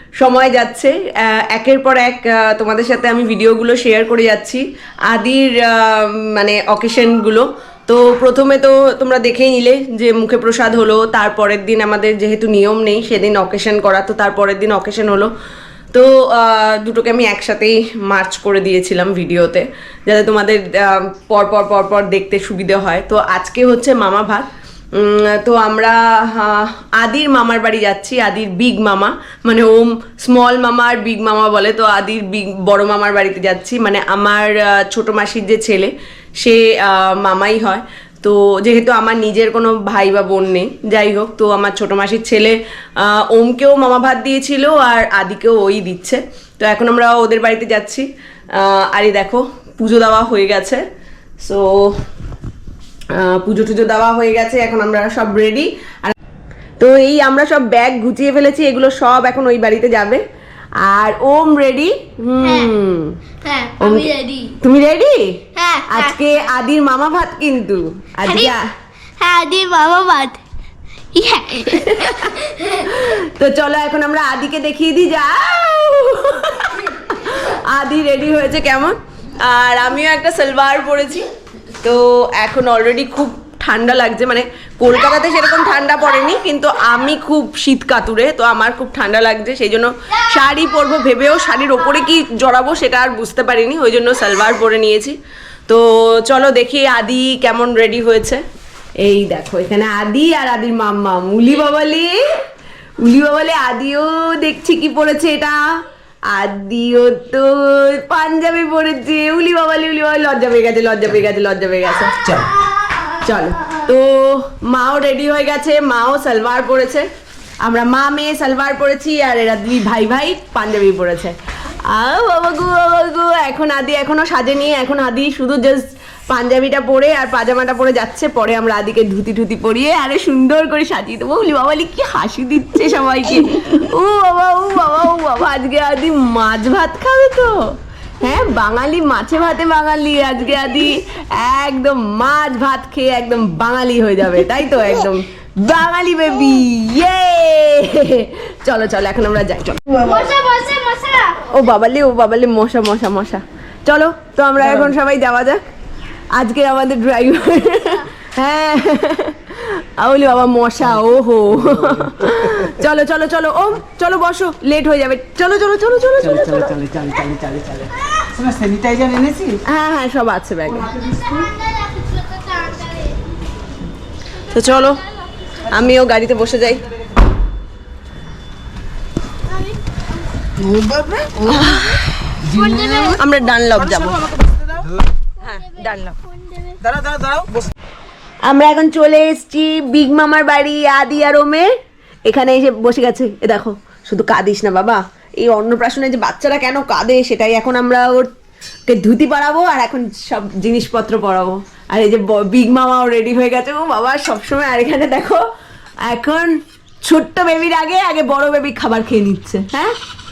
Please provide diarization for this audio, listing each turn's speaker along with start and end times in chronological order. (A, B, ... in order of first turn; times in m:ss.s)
0:00.2-0:15.3 A
0:15.9-0:24.5 A
0:25.0-0:48.0 A
0:48.6-0:50.8 A
0:51.4-0:51.9 A
0:53.2-0:56.1 A
0:56.8-1:00.2 A
1:00.8-1:03.1 A
1:02.4-1:02.7 B
1:03.4-1:04.5 B
1:03.8-1:05.2 A
1:05.6-1:06.2 B
1:05.9-1:08.6 A
1:08.2-1:08.6 B
1:09.2-1:10.4 B
1:11.1-1:12.9 B
1:11.7-1:12.3 A
1:12.9-1:21.2 A
1:21.8-1:35.2 A
1:35.7-1:38.4 A
1:39.0-1:42.2 A
1:43.0-1:45.6 A
1:46.3-1:52.3 A
1:53.2-1:57.0 A
1:57.6-2:01.4 A
2:01.9-2:17.5 A
2:18.2-2:29.9 A
2:30.0-2:31.5 B
2:31.5-2:35.6 A
2:36.3-2:46.7 A
2:41.7-2:42.0 C
2:46.2-2:49.6 C
2:49.7-2:50.9 A
2:50.8-2:51.5 C
2:51.5-2:53.1 B
2:54.5-2:55.0 A
2:55.7-2:56.8 A
3:00.6-3:01.7 C
3:01.4-3:02.0 A
3:02.4-3:03.1 C
3:02.5-3:03.2 B
3:02.9-3:04.2 A
3:03.7-3:04.8 C
3:05.4-3:06.1 A
3:05.4-3:06.8 B
3:06.8-3:07.6 C
3:08.4-3:11.6 A
3:12.2-3:18.3 A
3:18.9-3:25.4 A
3:26.0-3:29.9 A